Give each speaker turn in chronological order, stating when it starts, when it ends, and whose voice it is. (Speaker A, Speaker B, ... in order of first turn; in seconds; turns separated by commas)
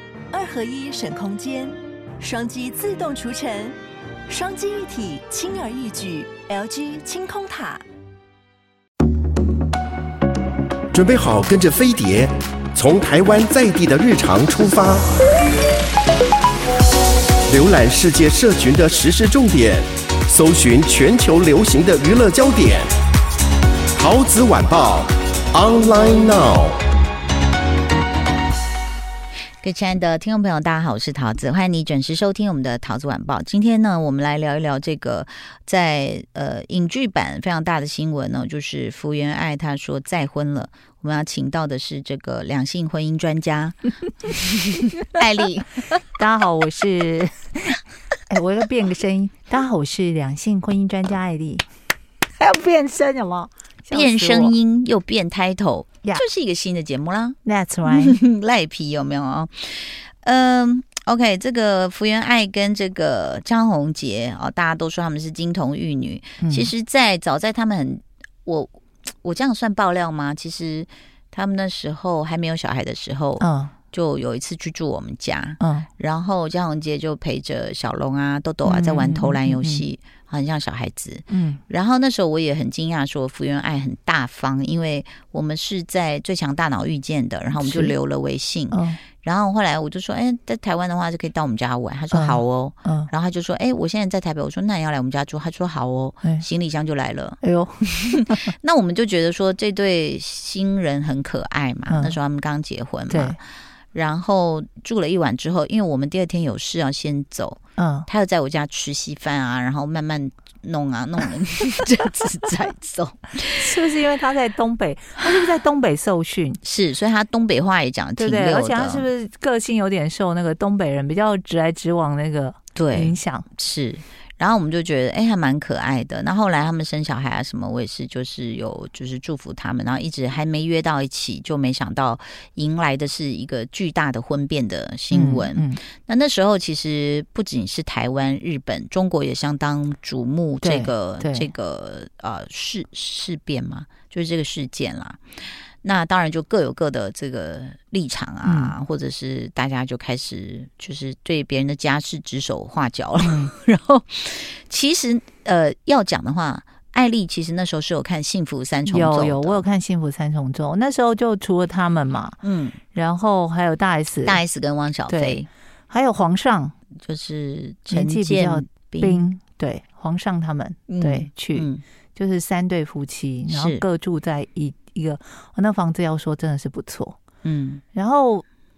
Speaker A: 0.3-3.8, Speaker A: 4.3-7.8, Speaker B: 10.9-15.2, Speaker B: 17.5-22.9, Speaker B: 23.9-26.8, Speaker C: 29.6-43.8, Speaker C: 44.3-45.7, Speaker D: 46.2-51.6, Speaker D: 52.4-54.5, Speaker C: 53.9-68.7, Speaker D: 57.4-58.2, Speaker D: 66.4-66.7, Speaker C: 69.2-103.4, Speaker D: 73.4-73.7, Speaker D: 75.6-75.9, Speaker D: 78.6-79.8, Speaker D: 81.3-81.6, Speaker D: 87.5-87.9, Speaker D: 88.7-89.0, Speaker D: 92.1-93.1, Speaker D: 97.4-98.4, Speaker D: 101.9-102.2, Speaker D: 103.1-103.4, Speaker C: 103.9-113.7, Speaker D: 107.8-108.1, Speaker D: 113.5-116.6, Speaker C: 116.6-119.1, Speaker D: 118.2-123.5, Speaker C: 122.7-145.2, Speaker D: 135.1-135.8, Speaker D: 140.6-141.5, Speaker C: 145.8-159.6, Speaker D: 148.4-148.7, Speaker D: 153.2-153.5, Speaker D: 158.8-162.4, Speaker C: 162.4-162.8, Speaker D: 162.9-164.4, Speaker C: 164.2-165.5, Speaker D: 165.1-166.7, Speaker C: 167.0-169.2, Speaker D: 167.9-177.2, Speaker C: 170.9-171.8, Speaker C: 173.5-173.8, Speaker C: 177.4-177.8, Speaker D: 177.9-178.4